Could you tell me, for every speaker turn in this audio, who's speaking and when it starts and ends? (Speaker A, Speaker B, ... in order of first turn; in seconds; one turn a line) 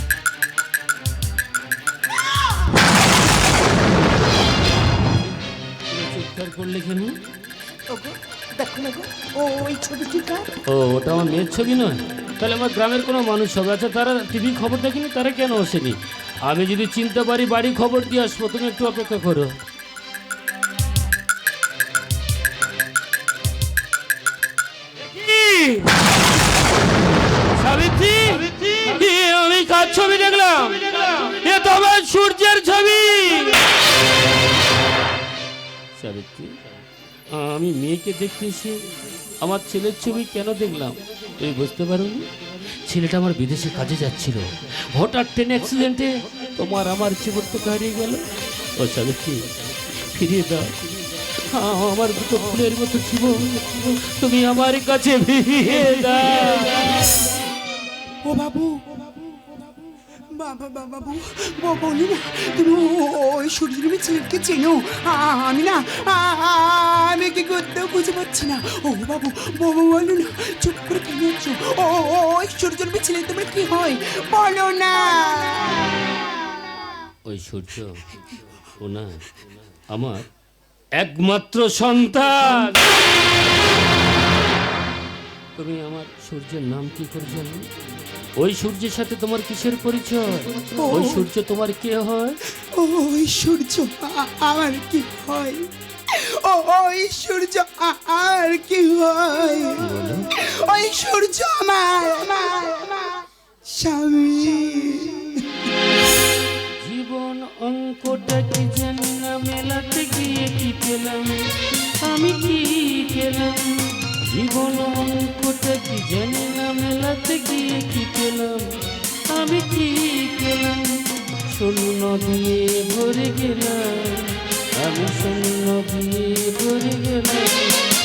Speaker A: 5.9-7.2
Speaker B: 7.9-10.4
Speaker A: 10.7-19.6
Speaker A: 25.0-25.9
Speaker A: 27.4-33.6
Speaker A: 36.0-36.5
Speaker A: 37.3-38.8
Speaker A: 39.4-42.2
Speaker A: 42.8-48.2
Speaker A: 48.8-50.7
Speaker A: 51.4-56.9
Speaker C: 58.2-59.4
Speaker C: 60.3-76.2
Speaker A: 77.2-78.2
Speaker A: 78.8-79.3
Speaker A: 79.9-80.2
Speaker A: 81.0-83.0
Speaker A: 85.5-87.7
Speaker A: 88.4-92.4
Speaker C: 90.8-91.2
Speaker C: 92.7-105.4
Speaker A: 99.8-100.3
Speaker A: 106.8-111.4
Speaker A: 112.0-118.7
Speaker A: 119.3-120.9
Speaker A: 121.5-127.7